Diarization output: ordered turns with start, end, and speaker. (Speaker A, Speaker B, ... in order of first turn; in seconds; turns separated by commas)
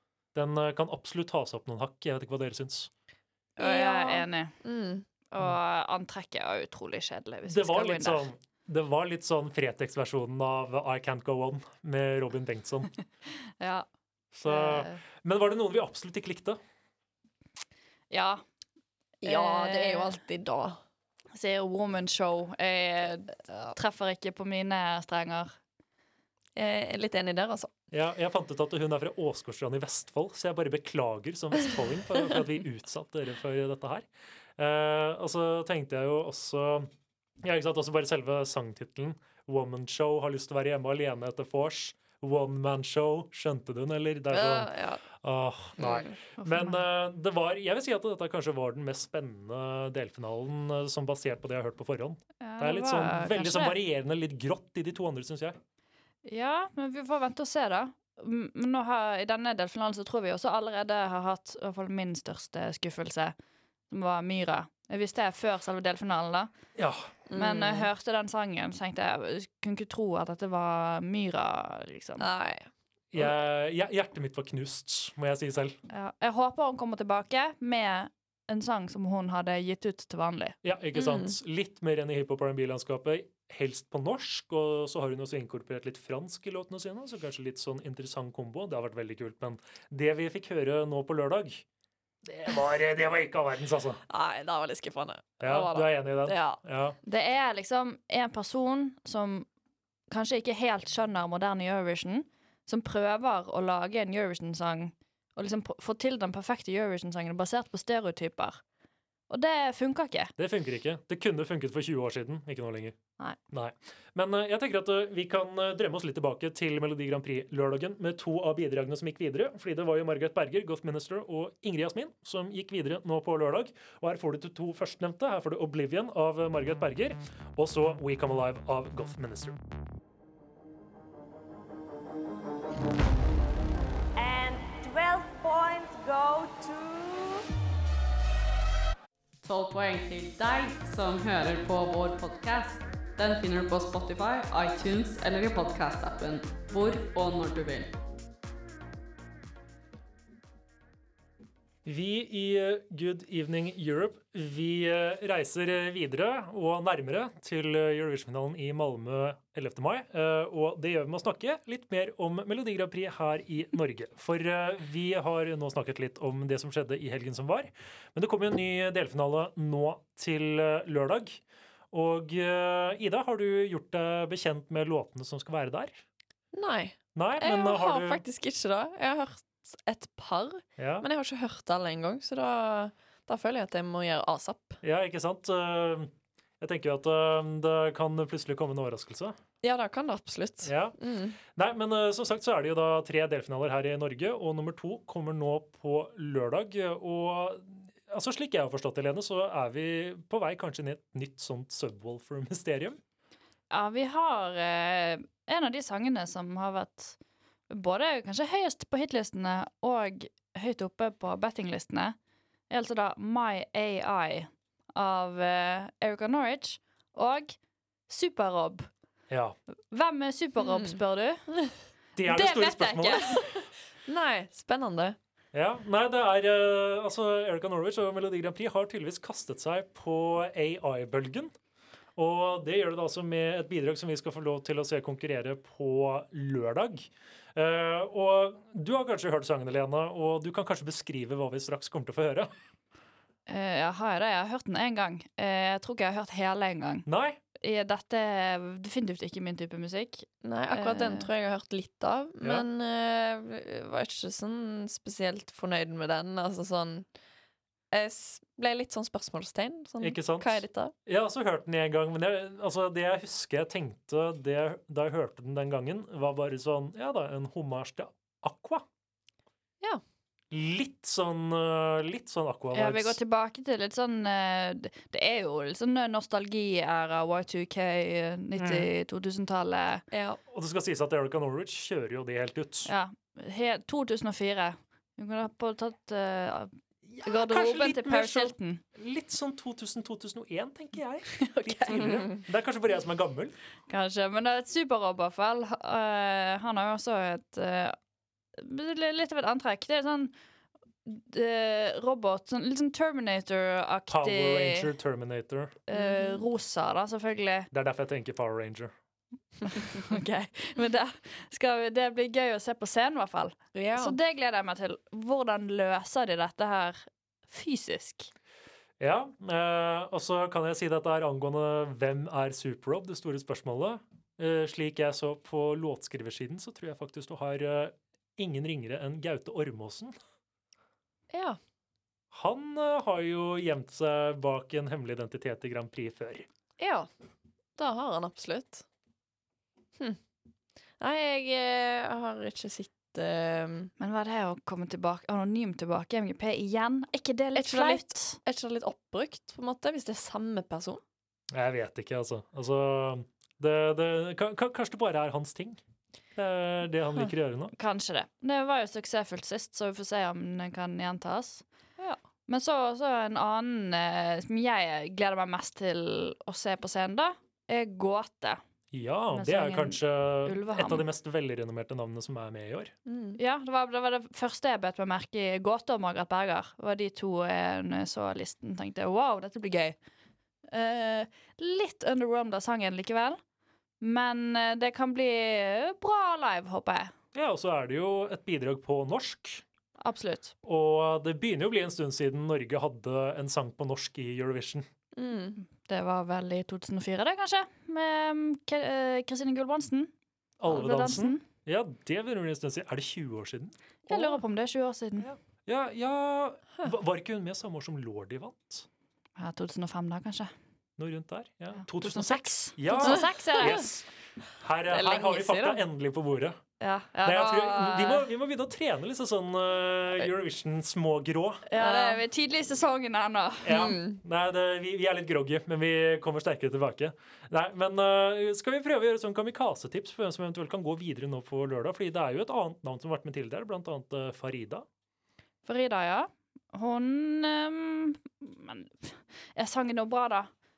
Speaker A: 0.3-2.9, Speaker B: 3.6-5.0, Speaker C: 3.6-4.6, Speaker C: 5.3-8.2, Speaker A: 7.5-12.9, Speaker C: 13.6-13.9, Speaker A: 14.3-16.6, Speaker C: 14.4-15.0, Speaker C: 18.1-18.4, Speaker C: 19.2-20.2, Speaker B: 19.2-20.8, Speaker C: 21.3-25.6, Speaker B: 23.5-23.7, Speaker B: 26.6-27.7, Speaker A: 27.9-36.9, Speaker A: 37.4-55.6, Speaker B: 44.3-45.0, Speaker B: 45.8-46.1, Speaker C: 46.4-46.8, Speaker C: 52.4-53.8, Speaker C: 56.2-63.3, Speaker C: 63.9-66.5, Speaker A: 66.8-67.0, Speaker B: 67.3-67.9, Speaker C: 67.3-72.3, Speaker B: 72.2-72.7, Speaker A: 73.1-75.8, Speaker C: 75.9-80.5, Speaker A: 80.6-91.6, Speaker B: 80.9-81.3, Speaker A: 92.2-94.0, Speaker B: 94.1-96.6, Speaker A: 95.4-97.0, Speaker C: 97.0-99.5, Speaker C: 100.1-108.6, Speaker C: 109.3-110.3, Speaker A: 110.4-113.0, Speaker A: 113.5-129.6, Speaker D: 134.2-137.4, Speaker E: 139.4-147.9, Speaker A: 151.8-171.4, Speaker A: 171.9-176.0, Speaker B: 176.5-184.8, Speaker A: 177.2-178.2, Speaker A: 180.8-181.1, Speaker A: 184.8-189.4, Speaker B: 189.6-191.4, Speaker A: 190.6-203.0, Speaker C: 203.7-207.2, Speaker C: 207.7-212.2, Speaker C: 212.7-218.9, Speaker A: 219.3-219.6, Speaker C: 219.9-221.5, Speaker B: 220.6-221.0, Speaker A: 222.1-223.5, Speaker C: 222.2-223.4, Speaker B: 223.6-225.2, Speaker A: 225.5-231.5, Speaker A: 232.2-242.5, Speaker C: 243.5-247.1, Speaker A: 247.1-247.4, Speaker C: 247.6-251.3, Speaker B: 250.4-257.1, Speaker A: 252.4-252.7, Speaker B: 257.9-260.9, Speaker A: 260.0-268.8, Speaker A: 270.5-273.2, Speaker C: 272.7-280.0, Speaker A: 278.6-278.9, Speaker B: 280.1-280.4, Speaker A: 280.5-282.9, Speaker C: 282.9-288.8, Speaker A: 287.1-293.5, Speaker C: 291.4-292.1, Speaker C: 293.9-297.9, Speaker C: 298.5-300.3, Speaker C: 301.0-304.9, Speaker A: 304.1-305.8, Speaker C: 305.9-307.7, Speaker B: 305.9-306.4, Speaker A: 307.7-308.9, Speaker C: 309.6-318.3, Speaker B: 313.7-314.1, Speaker A: 319.0-330.1, Speaker B: 331.3-331.6, Speaker A: 332.3-336.5, Speaker B: 336.8-337.1, Speaker B: 337.8-338.8, Speaker B: 341.0-343.9, Speaker C: 344.0-348.4, Speaker B: 347.6-351.0, Speaker A: 351.5-355.8, Speaker A: 356.4-357.7, Speaker C: 357.8-361.6, Speaker C: 362.5-368.6, Speaker A: 368.9-372.9, Speaker C: 369.3-371.0, Speaker B: 373.1-373.4, Speaker C: 373.4-379.9, Speaker C: 380.7-383.4, Speaker C: 384.0-387.1, Speaker A: 387.3-389.6, Speaker C: 390.0-390.5, Speaker A: 390.6-394.9, Speaker B: 395.1-395.6, Speaker C: 395.6-400.1, Speaker A: 400.6-403.7, Speaker C: 400.7-401.4, Speaker C: 404.1-405.3, Speaker B: 404.1-404.4, Speaker A: 405.3-408.9, Speaker C: 409.4-410.5, Speaker A: 411.0-414.1, Speaker C: 411.9-413.9, Speaker B: 413.1-413.9, Speaker A: 414.6-416.6, Speaker B: 414.9-415.8, Speaker C: 416.8-418.2, Speaker A: 417.2-421.6, Speaker C: 421.6-423.9, Speaker B: 421.8-422.2, Speaker A: 423.6-434.9, Speaker B: 423.7-424.2, Speaker C: 435.6-440.5